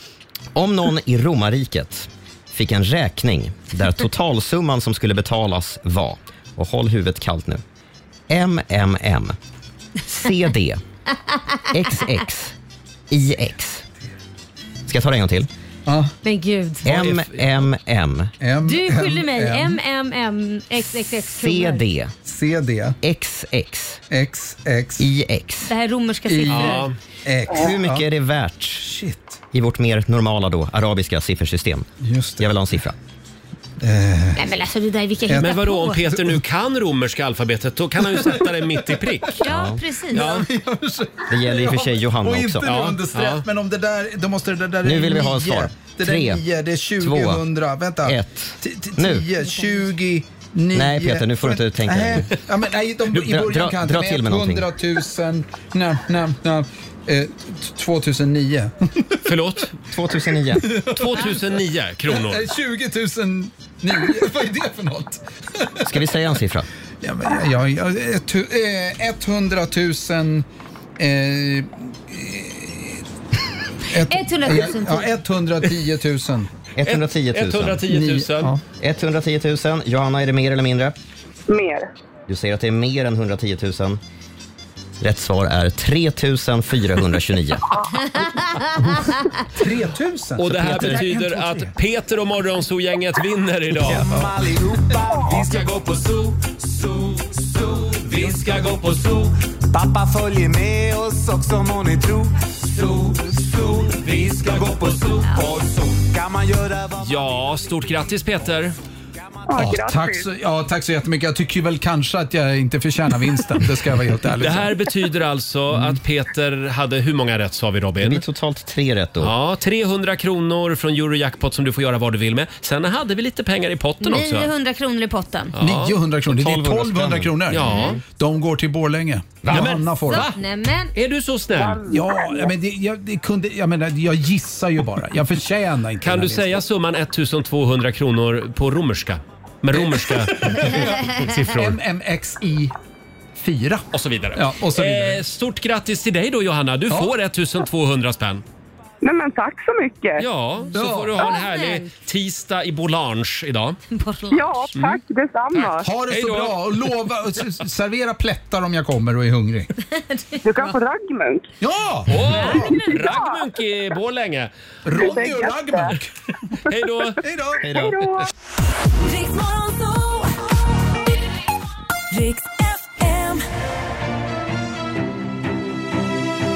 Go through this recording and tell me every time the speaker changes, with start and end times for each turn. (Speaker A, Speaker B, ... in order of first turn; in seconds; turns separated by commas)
Speaker A: 0.5-7.6, Speaker A: 8.3-9.3, Speaker A: 10.1-10.8, Speaker A: 11.7-12.5, Speaker A: 13.1-13.8, Speaker A: 14.9-15.5, Speaker B: 15.8-16.1, Speaker C: 16.2-16.8, Speaker A: 16.8-18.3, Speaker D: 16.9-17.5, Speaker B: 18.4-19.8, Speaker C: 18.6-21.8, Speaker A: 20.8-22.1, Speaker B: 22.2-22.9, Speaker A: 23.0-24.0, Speaker B: 24.1-25.1, Speaker A: 25.0-25.7, Speaker C: 25.7-26.8, Speaker B: 26.2-28.0, Speaker D: 26.5-26.9, Speaker A: 27.5-28.9, Speaker B: 28.8-29.4, Speaker A: 29.5-31.9, Speaker B: 32.0-32.5, Speaker A: 32.4-33.0, Speaker B: 33.8-34.4, Speaker C: 34.4-36.0, Speaker B: 35.3-35.6, Speaker D: 35.4-39.4, Speaker B: 36.1-36.4, Speaker B: 38.0-39.3, Speaker C: 39.4-40.4, Speaker A: 39.5-39.8, Speaker B: 40.1-59.5, Speaker D: 40.1-40.4, Speaker A: 41.3-42.6, Speaker D: 42.6-43.5, Speaker A: 44.8-46.4, Speaker A: 47.0-47.4, Speaker A: 48.0-49.3, Speaker A: 50.7-52.4, Speaker A: 53.1-54.7, Speaker D: 59.2-59.7, Speaker A: 59.9-60.7, Speaker B: 60.5-65.9, Speaker D: 60.9-62.4, Speaker A: 65.8-66.7, Speaker B: 67.0-70.5, Speaker B: 71.0-73.0, Speaker B: 73.9-76.5, Speaker C: 74.0-75.1, Speaker A: 76.8-77.8, Speaker D: 76.8-78.5, Speaker B: 77.9-78.6, Speaker A: 78.8-80.9, Speaker E: 81.5-81.9, Speaker A: 82.3-84.0, Speaker A: 85.0-87.7, Speaker B: 89.5-91.8, Speaker D: 90.4-94.1, Speaker F: 93.8-107.7, Speaker D: 95.2-96.3, Speaker D: 98.1-99.2, Speaker D: 104.5-105.0, Speaker D: 107.0-108.8, Speaker E: 109.5-110.2, Speaker B: 109.5-114.9, Speaker D: 114.4-118.2, Speaker B: 115.7-116.0, Speaker A: 118.0-119.3, Speaker D: 119.2-124.5, Speaker C: 124.0-125.5, Speaker D: 125.5-126.0, Speaker B: 125.6-130.3, Speaker A: 126.3-127.5, Speaker D: 127.5-128.0, Speaker C: 127.6-128.0, Speaker D: 129.4-130.4, Speaker C: 130.1-130.9, Speaker D: 130.9-131.8, Speaker E: 131.5-132.0, Speaker B: 131.8-136.6, Speaker D: 136.0-141.8, Speaker B: 139.7-142.7, Speaker B: 143.3-145.2, Speaker D: 143.9-148.4, Speaker E: 149.0-150.3, Speaker D: 150.2-153.8, Speaker B: 150.7-151.2, Speaker C: 151.2-151.9, Speaker C: 153.9-154.7, Speaker E: 154.3-155.9, Speaker D: 155.5-157.1, Speaker B: 155.8-159.7, Speaker C: 159.9-160.6, Speaker E: 160.4-161.5, Speaker B: 161.6-162.8, Speaker D: 162.1-164.5, Speaker C: 162.2-163.0, Speaker E: 162.7-163.4, Speaker B: 164.8-166.1, Speaker E: 164.9-165.9, Speaker D: 166.7-167.2, Speaker B: 167.2-167.7, Speaker A: 167.6-168.0, Speaker E: 167.8-168.2, Speaker G: 169.0-170.5, Speaker G: 172.1-173.4